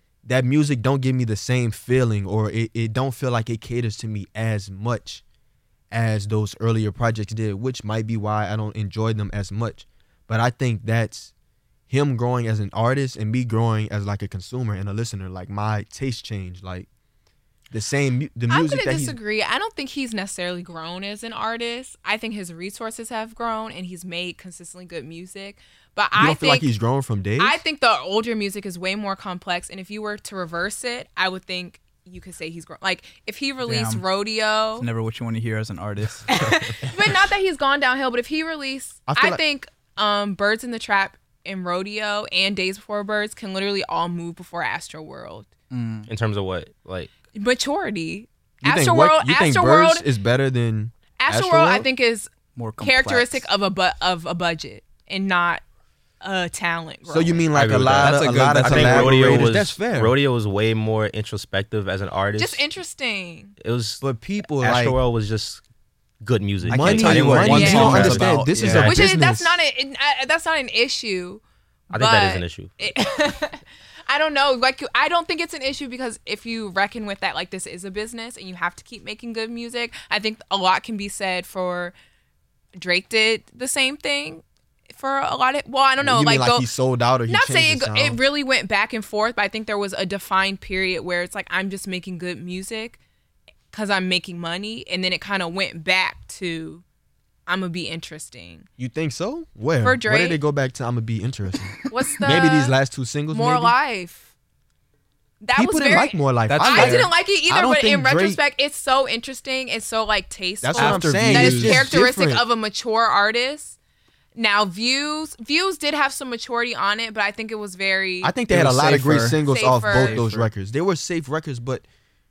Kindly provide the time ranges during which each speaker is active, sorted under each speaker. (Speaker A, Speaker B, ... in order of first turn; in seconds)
Speaker A: 0.2-5.2, 5.9-11.3, 11.9-16.9, 17.7-19.2, 26.2-27.6, 39.1-39.4, 48.6-51.9, 57.1-60.2, 64.0-65.0, 66.7-69.6, 86.0-88.2, 98.8-103.8, 105.6-108.4, 110.6-112.4, 118.2-121.8
Speaker B: 18.5-26.7, 27.4-34.9, 36.3-45.5, 47.3-50.1, 51.2-55.6, 56.2-57.5, 62.4-63.5, 67.5-68.1, 68.7-81.9, 82.8-86.7, 87.3-93.0, 93.7-96.8, 97.5-98.7, 99.8-100.4, 101.9-102.8, 103.3-104.3, 105.4-113.8, 114.3-118.3, 119.5-120.2
Speaker C: 33.6-34.0, 34.8-37.2, 45.7-46.1, 52.5-53.5, 58.0-59.6, 66.6-68.9, 106.5-107.1, 110.8-111.9, 118.5-120.5
Speaker D: 46.1-47.1, 57.5-62.6, 63.6-64.0, 64.6-65.6, 66.2-69.0, 71.9-72.7